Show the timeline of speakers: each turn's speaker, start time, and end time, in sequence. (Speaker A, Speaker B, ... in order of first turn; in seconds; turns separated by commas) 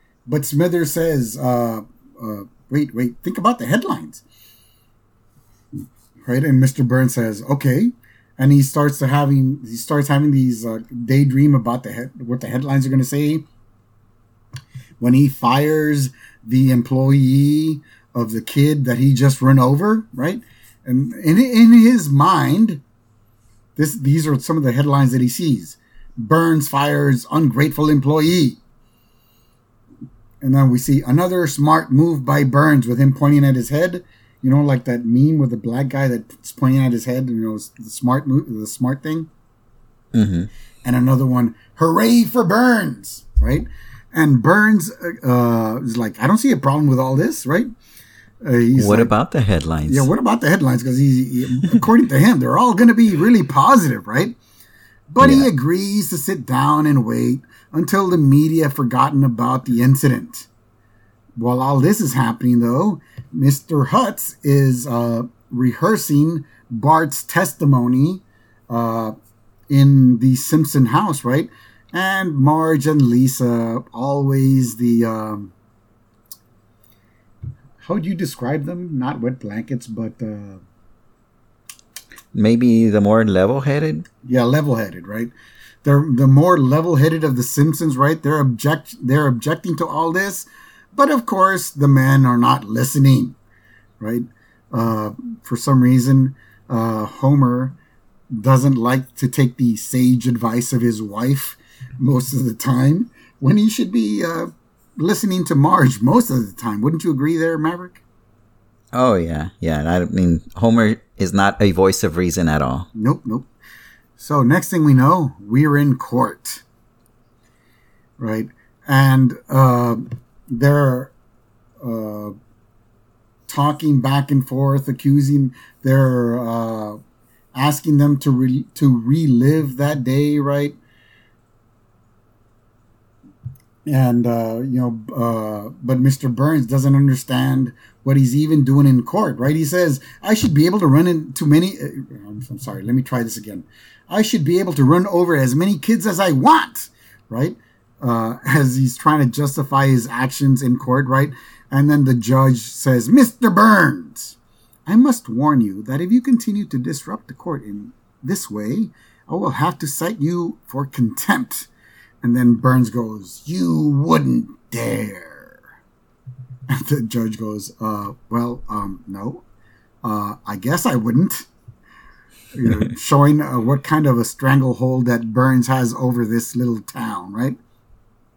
Speaker A: 0.3-4.2, Speaker A: 6.3-13.4, Speaker A: 15.0-22.8, Speaker A: 23.8-28.6, Speaker A: 30.4-39.3, Speaker B: 40.1-40.5, Speaker A: 40.8-47.7, Speaker A: 48.4-49.1, Speaker B: 48.8-50.1, Speaker A: 49.9-54.4, Speaker A: 55.1-60.5, Speaker B: 55.2-55.5, Speaker A: 61.4-69.1, Speaker A: 69.7-75.5, Speaker A: 77.8-80.6, Speaker B: 82.3-84.0, Speaker A: 84.2-85.3, Speaker A: 85.8-93.3, Speaker A: 94.0-97.7, Speaker A: 98.3-108.0, Speaker B: 108.9-112.9, Speaker A: 113.0-113.5, Speaker A: 114.2-116.6, Speaker A: 118.2-121.1, Speaker A: 121.8-122.3, Speaker A: 123.5-127.0, Speaker A: 127.5-130.8, Speaker A: 133.8-154.3, Speaker A: 154.9-161.7, Speaker A: 162.2-165.6, Speaker A: 166.7-169.4, Speaker A: 170.0-171.5, Speaker A: 172.5-177.6